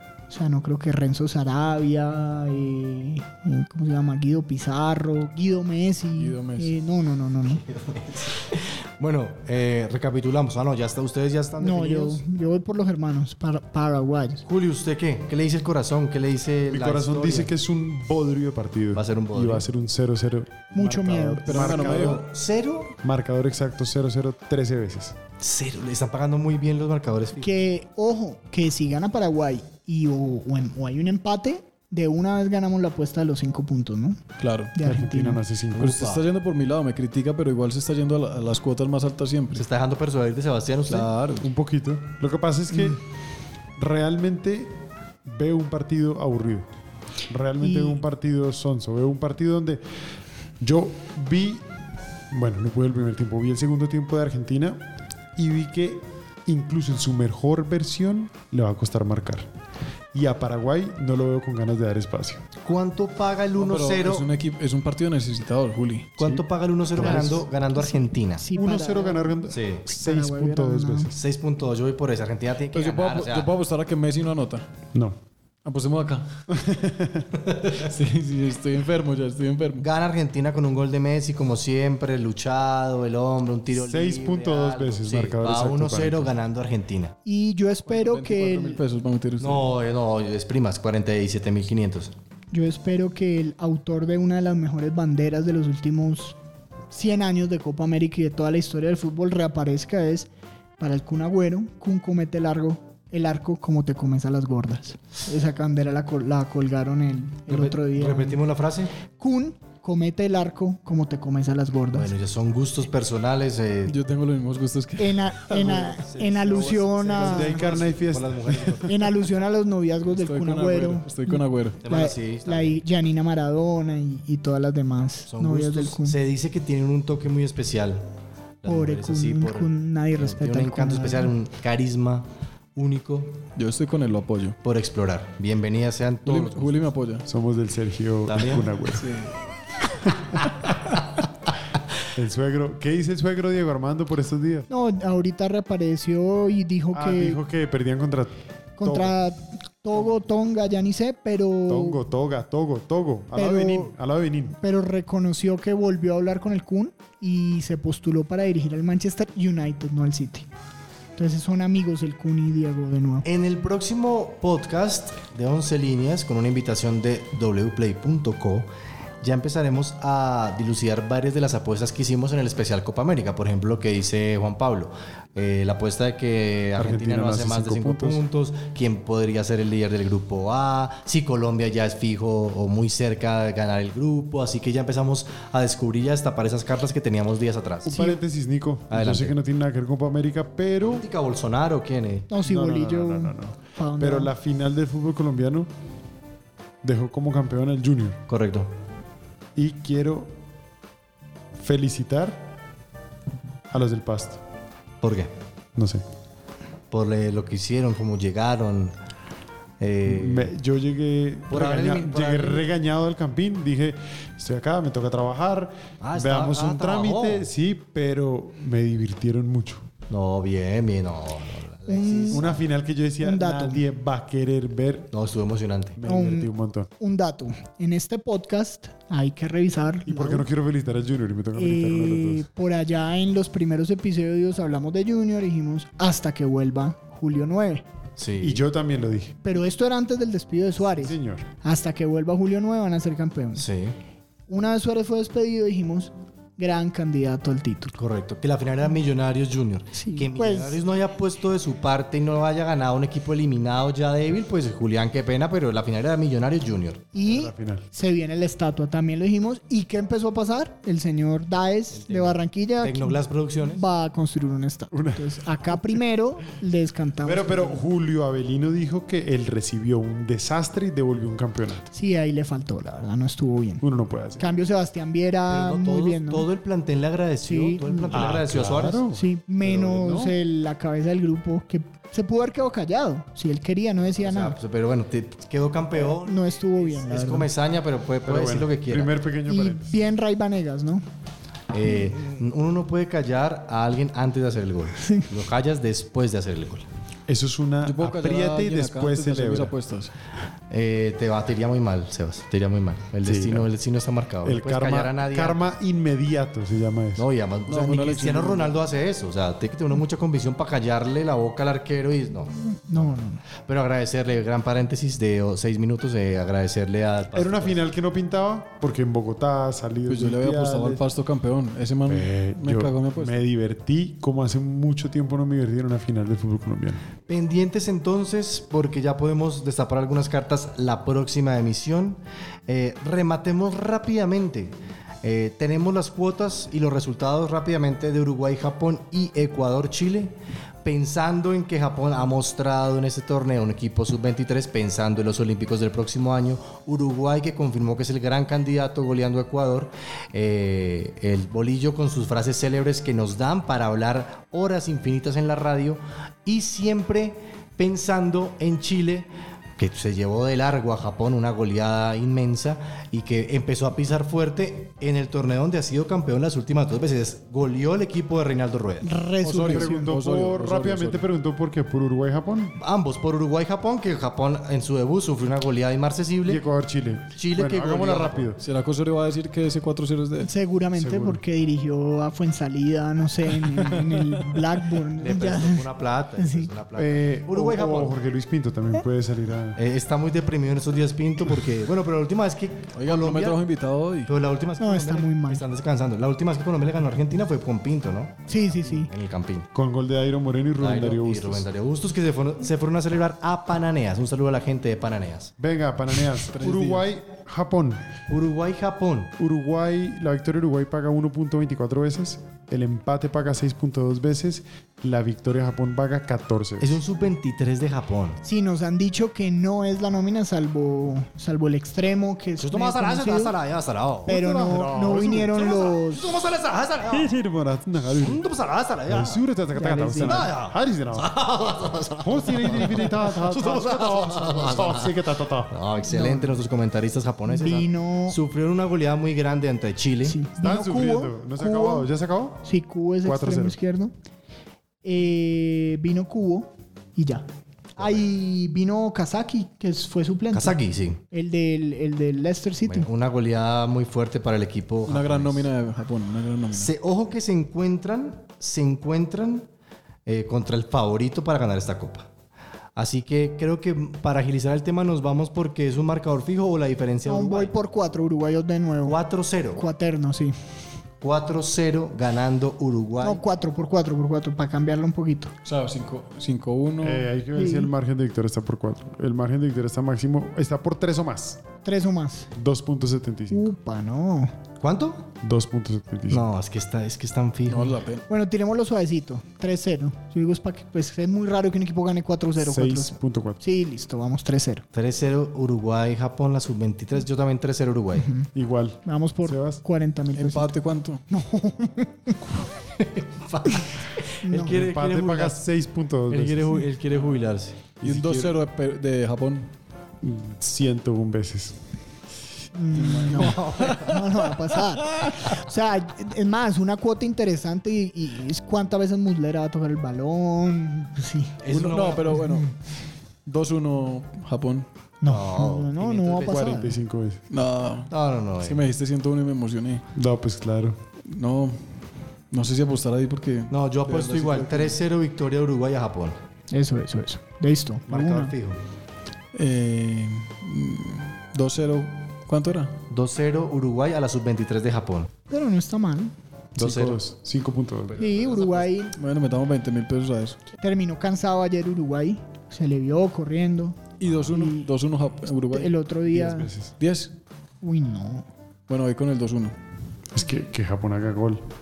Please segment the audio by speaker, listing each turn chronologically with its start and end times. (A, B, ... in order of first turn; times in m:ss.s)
0:00.3-0:07.6 A
0:06.2-0:06.7 B
0:07.7-0:12.2 C
0:11.6-0:14.4 A
0:14.4-0:17.5 C
0:16.7-0:22.2 D
0:18.9-0:19.6 C
0:20.7-0:21.6 A
0:21.4-0:22.2 B
0:21.5-0:23.0 C
0:23.0-0:25.2 D
0:25.4-0:27.5 C
0:27.4-0:34.2 A
0:34.4-0:34.8 B
0:34.7-0:35.4 A
0:34.8-0:36.0 D
0:35.7-0:36.2 C
0:35.8-0:39.7 B
0:39.6-0:41.1 C
0:40.9-0:41.5 B
0:41.4-0:43.0 D
0:43.8-0:44.7 D
0:45.2-0:46.7 D
0:47.3-0:49.8 D
0:47.6-0:48.0 A
0:50.6-0:51.6 D
0:52.3-0:54.8 D
0:55.4-0:59.5 D
1:00.1-1:02.4 D
1:02.6-1:04.3 C
1:03.6-1:06.2 B
1:06.2-1:08.5 C
1:07.0-1:07.4 B
1:07.0-1:07.4 D
1:07.0-1:11.1 A
1:08.6-1:11.2 D
1:09.5-1:09.8 C
1:11.1-1:13.5 C
1:12.7-1:14.6 B
1:15.6-1:16.4 B
1:16.5-1:17.3 D
1:17.6-1:19.9 B
1:19.8-1:27.2 C
1:23.7-1:26.3 D
1:27.2-1:28.8 A
1:27.9-1:29.7 B
1:29.4-1:32.1 C
1:32.5-1:36.4 A
1:36.9-1:48.4 A
1:47.5-1:48.9 C
1:49.1-1:52.1 A
1:51.9-1:54.0 C
1:53.9-1:55.7 B
1:55.0-1:57.7 A
1:55.5-1:58.9 C
1:57.2-1:58.9 D
1:58.8-2:06.2 A
2:00.1-2:01.8 B
2:01.8-2:02.8 C
2:05.3-2:08.1 C
2:08.6-2:13.4 C
2:08.7-2:11.3 A
2:13.6-2:14.6 B
2:14.6-2:16.8 C
2:16.2-2:17.2 B
2:17.3-2:19.1 D
2:18.3-2:18.7 C
2:18.9-2:19.3 B
2:22.2-2:24.7 D
2:24.7-2:27.4 A
2:26.9-2:29.2 D
2:28.8-2:32.0 A
2:31.7-2:34.6 D
2:33.4-2:33.9 A
2:34.6-2:40.5 A
2:41.2-2:43.2 A
2:43.2-2:48.7 C
2:49.2-3:08.0 C
2:56.8-2:58.2 D
3:07.8-3:11.1 D
3:07.9-3:08.2 A
3:08.9-3:09.4 C
3:10.8-3:12.3 C
3:12.3-3:14.3 A
3:12.4-3:15.7 D
3:16.8-3:18.2 D
3:18.3-3:18.7 C
3:19.6-3:20.3 D
3:21.6-3:22.4 D
3:23.7-3:24.4 D
3:25.0-3:25.3 C
3:25.8-3:26.0 D
3:26.9-3:28.9 C
3:29.8-3:30.5 C
3:30.0-3:39.8 D
3:31.5-3:32.7 C
3:36.0-3:37.5 C
3:40.1-3:42.6 C
3:41.9-3:42.6 A
3:42.3-3:45.1 D
3:43.2-3:43.8 A
3:45.1-3:46.0 C
3:46.0-3:46.9 D
3:46.0-3:50.5 A
3:50.1-3:52.5 D
3:51.6-3:57.9 A
3:58.2-3:58.6 C
3:58.4-3:59.4 D
3:59.4-4:03.6 A
4:00.9-4:01.5 D
4:03.6-4:04.0 C
4:04.5-4:08.0 A
4:08.0-4:17.1 C
4:09.9-4:10.8 A
4:17.1-4:27.8 A
4:17.3-4:17.8 D
4:21.9-4:23.8 C
4:24.9-4:26.0 D
4:27.2-4:31.9 D
4:31.9-4:33.8 A
4:33.8-4:34.6 D
4:34.4-4:36.5 A
4:35.5-4:39.0 C
4:37.4-4:38.3 A
4:38.1-4:40.4 D
4:39.1-4:44.6 A
4:44.2-4:49.1 C
4:46.2-4:47.5 A
4:48.2-4:50.0 D
4:49.5-4:51.0 A
4:51.7-4:56.9 C
4:55.0-4:55.3 A
4:57.3-4:59.7 D
4:57.8-5:00.1 B
5:00.7-5:05.7 C
5:03.2-5:03.7 D
5:04.4-5:07.3 D
5:07.2-5:12.6 C
5:07.7-5:08.8 B
5:12.7-5:13.4 A
5:13.6-5:17.8 C
5:17.4-5:21.0 D
5:20.1-5:23.4 B
5:22.1-5:27.0 D
5:27.3-6:09.1 C
6:09.0-6:10.1 A
6:09.4-6:11.2 B
6:09.6-6:12.8 D
6:12.8-6:16.6 C
6:16.4-6:18.6 D
6:17.3-6:18.5 C
6:18.6-6:20.5 B
6:20.4-6:26.7 A
6:21.0-6:21.4 D
6:23.6-6:24.6 B
6:25.2-6:28.2 C
6:27.0-6:29.8 D
6:29.8-6:33.6 C
6:33.0-6:34.3 B
6:34.3-6:39.7 C
6:34.8-6:35.6 A
6:38.5-6:39.1 A
6:39.7-6:41.7 D
6:40.8-6:45.5 C
6:45.6-6:48.0 D
6:46.5-6:47.1 B
6:48.3-6:49.3 C
6:49.4-6:57.0 D
6:56.8-6:58.4 C
6:58.4-7:03.6 A
7:02.6-7:04.4 C
7:04.3-7:05.6 D
7:04.3-7:06.3 A
7:05.5-7:07.3 C
7:07.1-7:08.4 D
7:08.2-7:09.4 C
7:09.1-7:11.3 D
7:09.7-7:10.5 A
7:10.2-7:20.4 C
7:12.2-7:15.8 D
7:16.1-7:16.5 A
7:17.5-7:18.4 A
7:20.2-7:22.1 A
7:20.6-7:22.6 D
7:22.6-7:24.1 A
7:23.2-7:23.8 D
7:25.0-7:30.8 A
7:28.0-7:28.2 C
7:30.5-7:31.2 C
7:31.3-7:33.1 A
7:32.8-7:35.7 C
7:35.1-7:36.9 B
7:36.7-7:39.7 C
7:40.3-7:42.3 C
7:43.0-7:47.7 C
7:47.3-7:49.2 A
7:49.0-7:49.8 C
7:49.8-7:50.5 A
7:51.2-7:53.4 C
7:53.2-7:55.5 A
7:55.6-7:57.3 B
7:57.0-8:01.6 D
7:57.5-7:57.9 A
8:01.8-8:02.5 A
8:02.5-8:03.7 D
8:03.5-8:04.5 A
8:04.8-8:05.2 C
8:05.4-8:06.5 D
8:06.3-8:08.0 C
8:07.7-8:08.2 B
8:08.3-8:14.8 A
8:12.6-8:13.6 D
8:14.9-8:18.3 C
8:18.2-8:18.5 A
8:18.5-8:19.8 D
8:19.0-8:20.7 A
8:20.4-8:21.2 B
8:21.3-8:22.4 A
8:23.0-8:25.6 C
8:24.4-8:24.8 A
8:24.7-8:26.8 D
8:26.3-8:28.5 C
8:28.0-8:29.7 B
8:30.2-8:31.8 D
8:32.8-8:41.6 A
8:32.9-8:34.0 B
8:33.3-8:34.3 C
8:41.6-8:42.4 C
8:41.7-8:42.7 B
8:42.3-8:42.7 A
8:43.5-8:44.9 B
8:45.2-8:47.0 A
8:45.3-8:46.7 C
8:46.5-8:47.4 D
8:47.5-8:50.0 B
8:48.1-8:48.8 C
8:50.1-8:51.0 D
8:51.3-8:51.8 B
8:52.5-8:55.0 B
8:53.7-8:56.4 C
8:56.7-8:58.5 A
8:58.1-8:58.8 C
8:59.5-9:03.0 B
9:03.1-9:05.3 C
9:05.5-9:06.3 A
9:06.8-9:08.4 D
9:06.8-9:07.2 C
9:08.2-9:09.2 A
9:08.3-9:08.7 C
9:08.4-9:10.6 B
9:10.8-9:14.9 A
9:14.2-9:15.9 B
9:15.6-9:16.7 A
9:16.3-9:16.9 D
9:17.0-9:17.3 B
9:17.8-9:18.5 A
9:18.9-9:19.7 B
9:20.3-9:21.6 D